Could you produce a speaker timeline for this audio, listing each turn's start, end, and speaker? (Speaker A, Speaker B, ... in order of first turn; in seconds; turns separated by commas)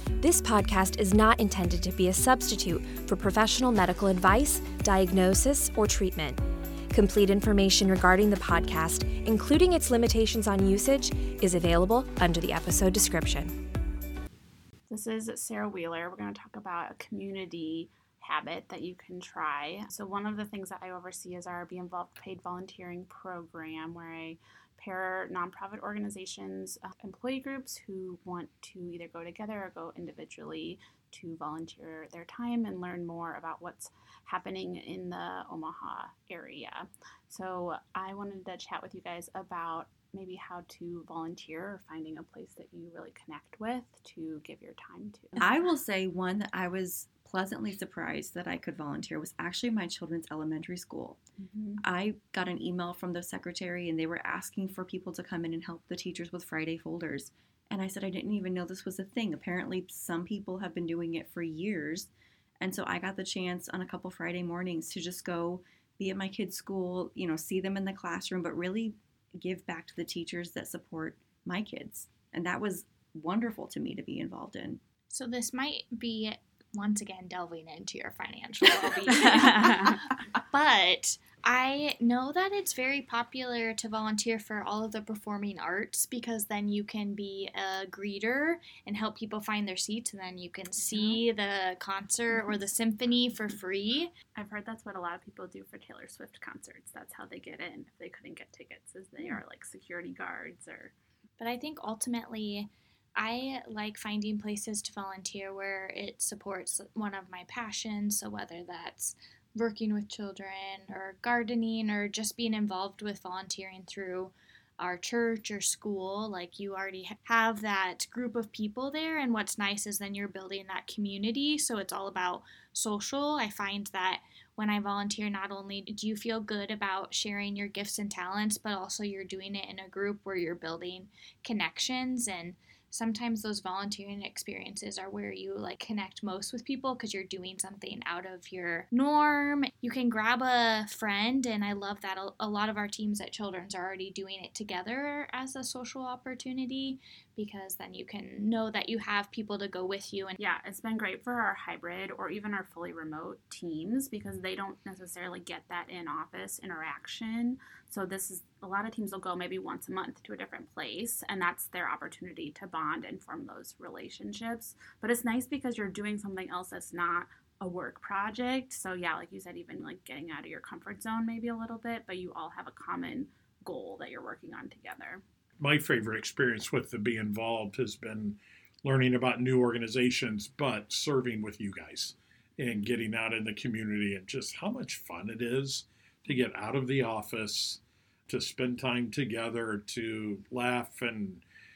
Speaker A: 0.2-13.6, Speaker B: 14.9-45.5, Speaker C: 45.4-51.2, Speaker B: 51.4-51.8, Speaker C: 51.8-74.8, Speaker D: 75.1-94.1, Speaker B: 90.8-91.2, Speaker B: 94.3-100.9, Speaker D: 101.4-150.3, Speaker B: 150.4-175.2, Speaker E: 175.6-191.4, Speaker A: 185.4-186.3, Speaker A: 187.5-187.8